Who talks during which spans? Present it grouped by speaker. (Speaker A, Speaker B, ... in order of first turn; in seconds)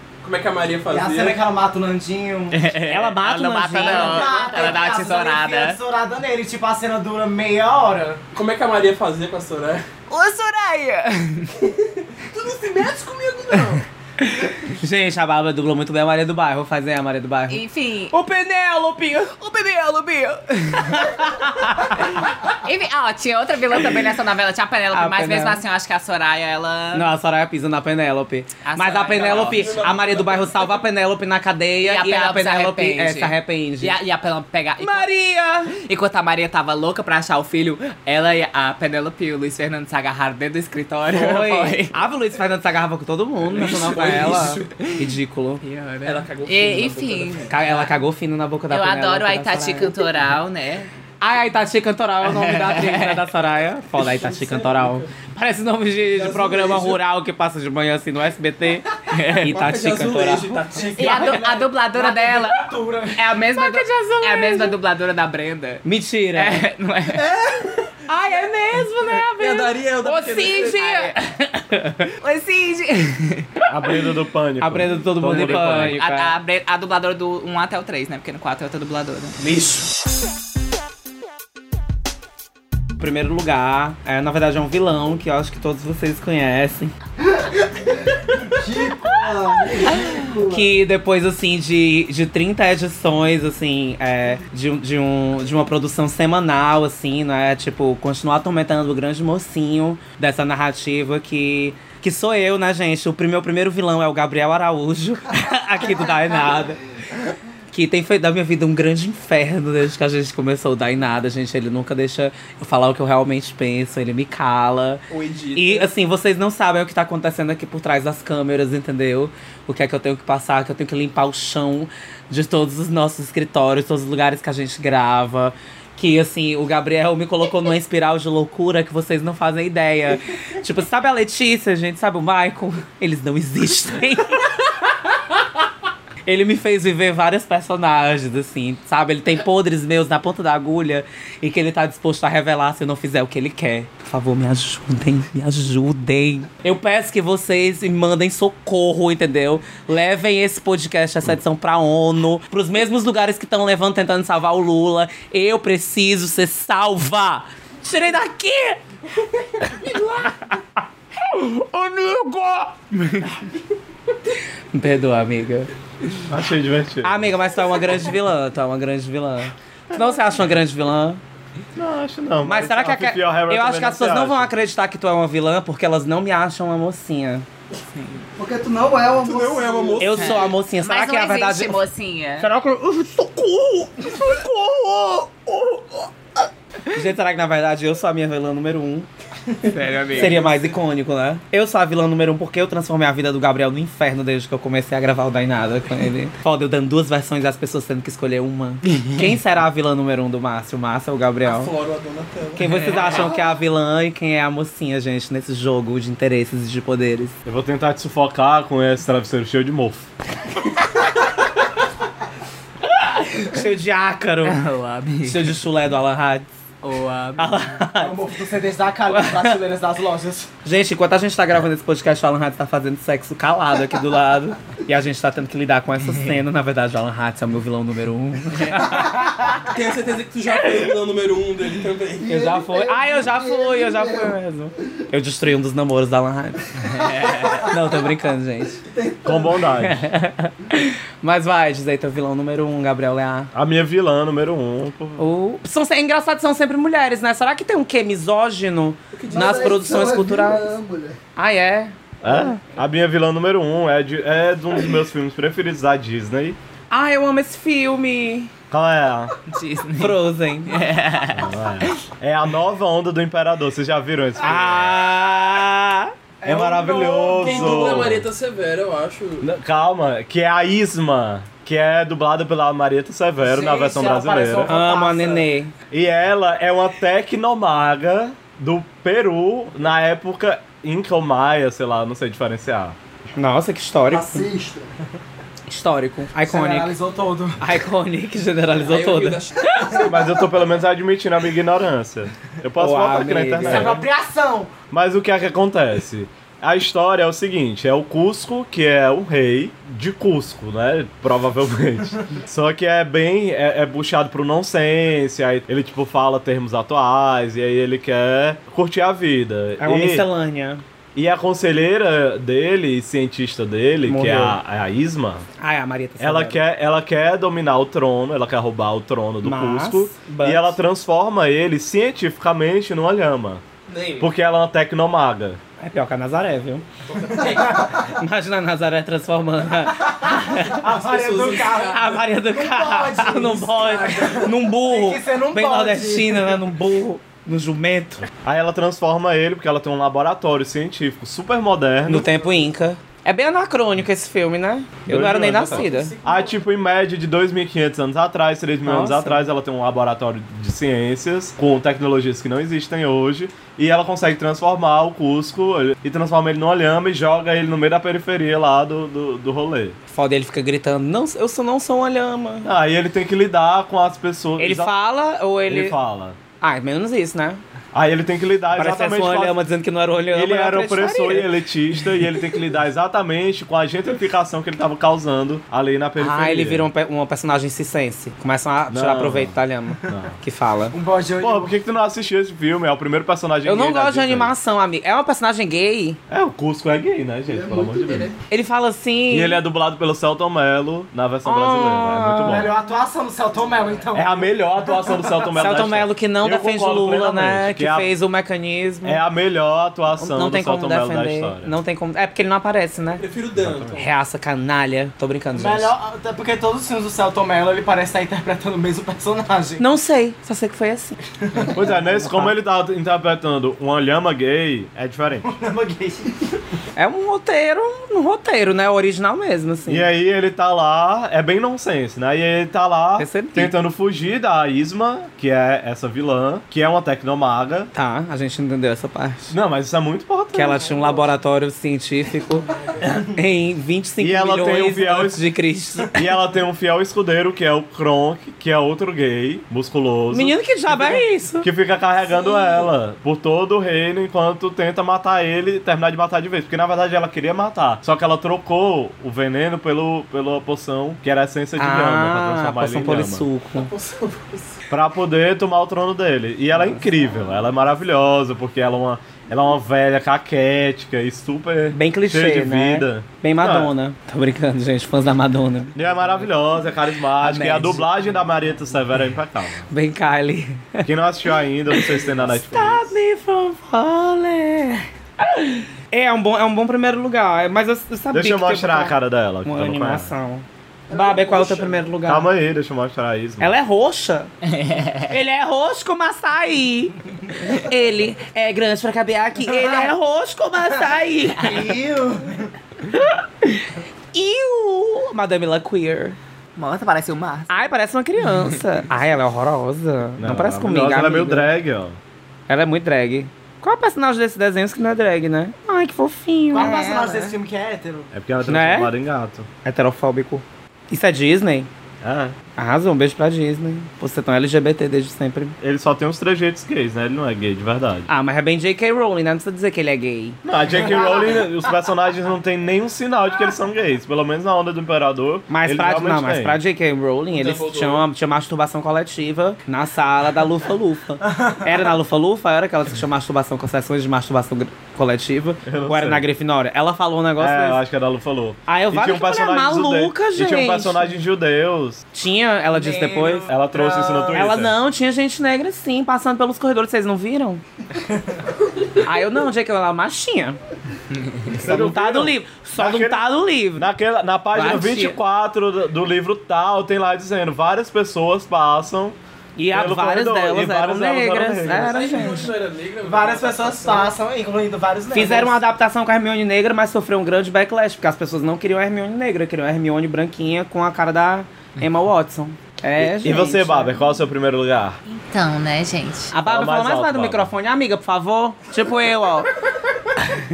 Speaker A: 0.2-1.4, 8.3-9.8, 12.2-13.8, 29.1-30.9, 43.4-44.8, 46.0-47.5, 54.0-55.1, 56.1-57.0, 59.4-61.2, 67.1-67.9, 69.3-70.8, 79.4-79.9, 115.1-115.9, 179.2-180.6, 189.9-190.7, 201.4-203.3, 229.7-232.4, 249.2-249.7, 267.4-269.5, 288.7-289.9, 323.9-324.3, 327.1-327.8, 330.9-332.3, 333.9-334.3, 345.2-346.7, 403.0-404.1, 453.7-454.8, 527.5-528.2, 562.0-564.3
Speaker B: 0.9-2.6, 3.8-8.2, 60.7-63.3, 218.0-220.5, 266.4-267.9, 273.4-275.5, 286.4-287.6, 293.6-294.7, 327.3-327.6, 330.1-336.6, 380.9-381.7, 392.4-395.6, 405.5-409.9, 415.4-416.3, 489.7-490.1, 491.6-492.7, 506.7-508.3, 521.0-521.6, 542.9-544.7, 563.2-565.8
Speaker C: 2.5-5.8, 10.1-11.7, 17.5-18.3, 19.1-27.1, 28.6-29.7, 31.8-42.0, 45.6-47.9, 48.7-50.9, 52.2-53.2, 59.1-59.6, 61.0-67.3, 70.6-71.3, 72.2-73.5, 75.4-79.4, 177.9-178.2, 180.2-182.5, 189.7-190.4, 198.9-199.2, 202.7-203.2, 214.4-215.6, 216.8-217.6, 228.6-228.8, 236.9-237.7, 259.5-261.9, 484.7-485.3, 496.8-497.9, 506.7-507.6, 575.3-576.5
Speaker D: 2.9-4.4, 14.4-17.6, 18.1-19.2, 20.8-22.0, 24.9-25.6, 26.9-34.0, 34.8-35.7, 41.1-45.6, 47.5-49.9, 51.2-61.3, 63.6-64.7, 65.8-66.7, 68.1-72.1, 74.6-76.3, 83.0-86.9, 90.5-106.8, 107.7-115.0, 115.5-134.7, 136.3-158.8, 161.3-163.3, 164.7-165.7, 167.0-171.2, 172.4-177.5, 180.0-181.8, 182.4-185.8, 186.9-189.1, 190.1-201.7, 202.6-207.4, 213.0-214.6, 215.2-216.5, 217.4-218.2, 219.1-219.6, 220.7-229.6, 232.3-238.8, 239.8-243.5, 245.2-250.7, 251.4-252.6, 256.9-258.5, 260.0-260.8, 264.4-266.1, 274.7-275.7, 283.4-284.5, 285.7-286.9, 287.6-290.0, 292.8-294.0, 309.8-310.8, 314.1-314.6, 315.6-316.6, 319.4-320.8, 325.8-326.9, 327.7-330.9, 331.8-338.3, 342.1-346.1, 348.9-349.4, 360.1-362.7, 364.6-366.0, 366.6-367.6, 368.8-371.6, 376.2-381.0, 383.6-386.2, 388.5-389.6, 391.4-392.7, 395.6-399.2, 400.2-403.2, 404.0-405.9, 409.8-411.2, 411.7-412.6, 417.0-420.1, 423.2-423.8, 427.9-429.5, 430.5-432.7, 433.2-436.2, 440.3-441.7, 451.8-453.9, 461.9-466.5, 467.4-468.2, 469.9-471.1, 471.9-482.5, 483.6-484.5, 485.3-491.9, 493.1-496.4, 497.7-501.7, 502.7-507.1, 508.7-509.1, 509.8-511.9, 512.8-515.8, 518.3-520.6, 525.7-538.0, 538.9-541.4, 542.3-543.7, 544.5-547.8, 549.2-550.8, 551.7-554.1, 554.7-555.4, 559.8-562.7, 565.3-574.1, 576.5-579.7
Speaker E: 73.7-76.0, 166.3-167.4, 171.8-174.5, 207.4-210.1, 239.2-240.0, 243.5-245.2, 252.2-256.6, 258.7-259.3, 261.3-265.0, 266.4-268.3, 269.4-274.8, 275.9-283.0, 290.0-294.0, 294.9-310.3, 311.1-315.5, 316.2-323.6, 324.2-325.6, 338.4-342.3, 345.1-360.0, 362.6-364.9, 365.7-366.4, 367.9-369.6, 370.3-376.9, 378.9-380.4, 381.4-384.5, 386.3-388.3, 389.3-392.7, 394.1-398.1, 399.0-401.7, 403.6-404.0, 411.7-415.5, 419.9-427.9, 429.5-431.0, 434.2-435.4, 436.1-453.5, 454.9-463.9, 465.9-469.9, 471.0-473.1, 478.3-480.3, 482.3-483.8, 500.4-502.2, 508.3-509.7, 512.2-512.6, 515.8-518.3, 520.6-526.8, 535.9-536.5, 537.6-542.2, 543.7-545.0, 551.7-559.4, 559.9-562.3, 573.2-575.2, 576.6-577.7
Speaker F: 87.3-90.7, 178.4-180.2, 232.2-234.4, 236.9-237.6, 238.8-239.7, 249.2-251.2, 284.1-284.9, 387.5-388.3, 481.1-482.0